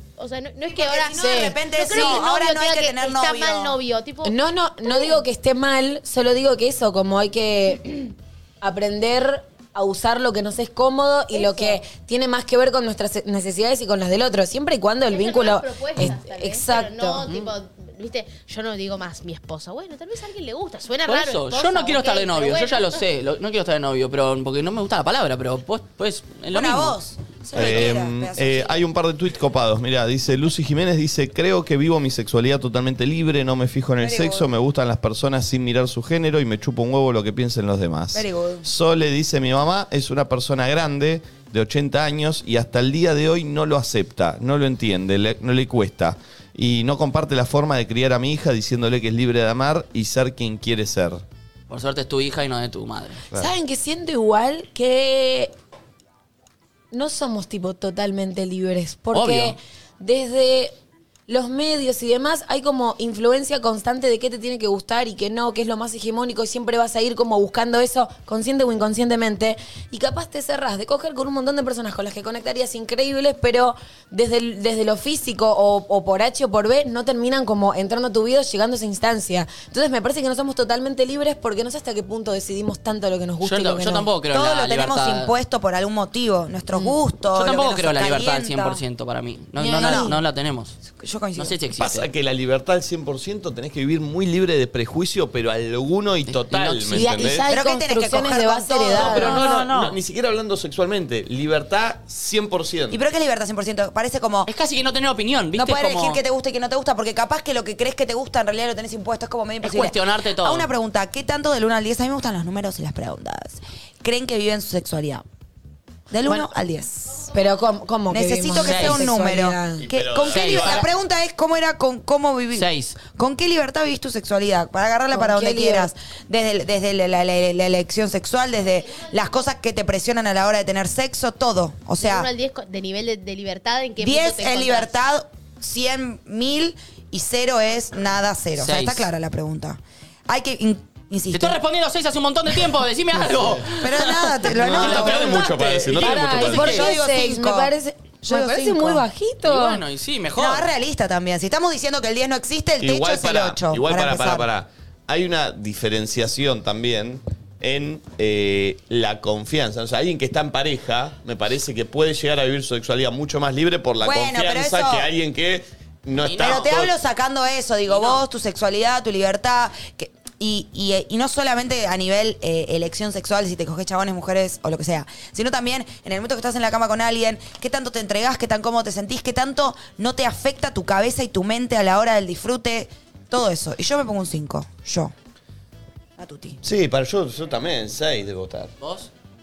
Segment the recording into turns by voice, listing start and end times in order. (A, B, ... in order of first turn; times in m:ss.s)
0:00.2-0:04.4 A
0:00.6-0:03.8 B
0:01.1-0:02.2 C
0:04.2-0:17.3 C
0:04.9-0:05.2 A
0:11.3-0:11.8 A
0:15.1-0:23.0 A
0:21.1-0:27.0 D
0:26.5-0:28.8 B
0:27.5-0:51.2 E
0:34.0-0:34.5 B
0:38.1-0:38.7 B
0:51.7-0:53.2 D
0:53.4-0:55.5 C
0:56.9-1:00.7 C
0:59.1-0:59.6 D
1:01.3-1:24.1 C
1:23.4-1:25.3 D
1:24.3-1:28.8 B
1:26.7-1:30.8 D
1:29.6-1:30.1 C
1:29.7-1:30.2 B
1:30.8-1:31.6 B
1:31.4-1:32.1 D
1:31.8-1:37.5 E
1:36.3-1:37.4 D
1:36.9-1:39.4 C
1:37.5-1:39.4 B
1:39.0-1:43.0 E
1:39.0-1:40.0 D
1:42.9-1:44.5 B
1:44.5-1:46.2 D
1:45.6-1:55.2 B
1:49.6-1:50.7 D
1:56.1-1:57.3 B
1:57.3-1:59.8 C
1:58.1-2:12.3 B
1:58.6-1:59.0 D
1:59.8-2:00.9 E
2:00.3-2:00.9 D
2:02.6-2:03.0 D
2:05.1-2:05.9 C
2:12.0-2:14.9 A
2:14.0-2:21.6 B
2:18.6-2:19.1 D
2:21.3-2:26.9 D
2:23.7-2:25.5 B
2:24.6-2:26.8 E
2:26.0-2:29.8 C
2:26.3-2:29.1 B
2:29.4-2:30.7 D
2:30.4-2:34.5 B
2:32.8-2:46.9 E
2:44.0-2:45.1 B
2:46.2-2:46.7 D
2:46.4-3:05.1 B
2:47.9-2:48.2 D
3:06.2-3:06.6 B
3:06.6-3:08.7 E
3:08.8-3:09.1 D